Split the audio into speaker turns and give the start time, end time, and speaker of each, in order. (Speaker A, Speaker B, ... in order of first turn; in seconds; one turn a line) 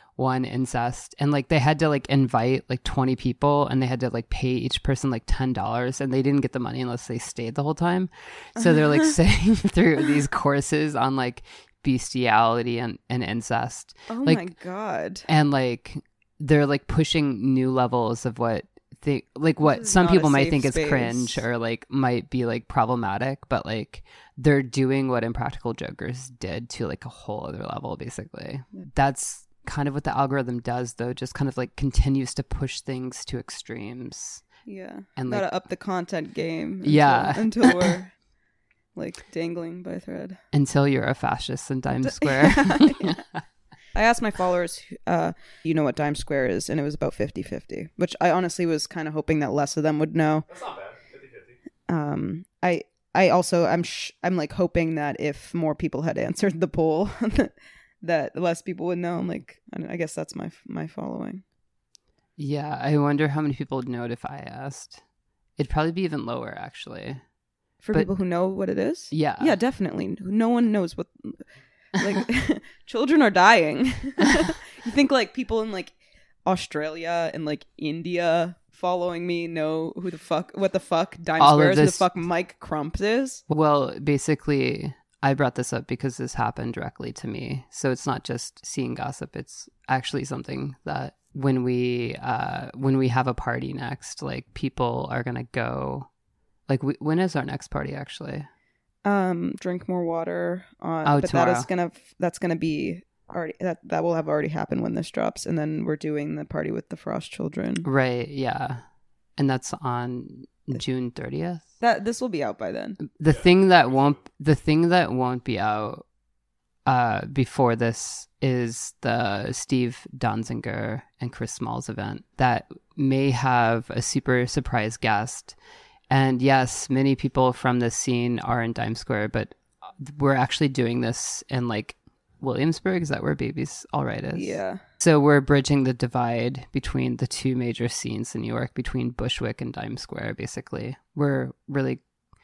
Speaker A: 0.2-14.5
Speaker B: 8.6-9.2
Speaker B: 14.1-15.3
Speaker A: 15.3-34.6
Speaker B: 19.6-21.4
Speaker B: 34.7-38.2
Speaker A: 35.2-35.5
Speaker A: 36.8-38.0
Speaker B: 39.0-40.4
Speaker A: 40.5-43.2
Speaker B: 42.0-43.2
Speaker B: 43.9-50.5
Speaker C: 50.5-51.6
Speaker B: 51.9-61.4
Speaker A: 62.4-65.0
Speaker A: 65.6-67.2
Speaker B: 67.8-71.4
Speaker A: 69.1-69.6
Speaker B: 72.0-83.4
Speaker A: 81.4-82.0
Speaker A: 83.5-96.1
Speaker A: 96.7-98.5
Speaker B: 99.0-107.9
Speaker A: 101.0-101.7
Speaker A: 107.8-108.8
Speaker A: 109.4-111.7
Speaker B: 111.8-113.0
Speaker A: 113.0-116.0
Speaker C: 113.3-114.3
Speaker A: 116.9-125.6
Speaker A: 126.1-142.0
Speaker B: 134.3-134.8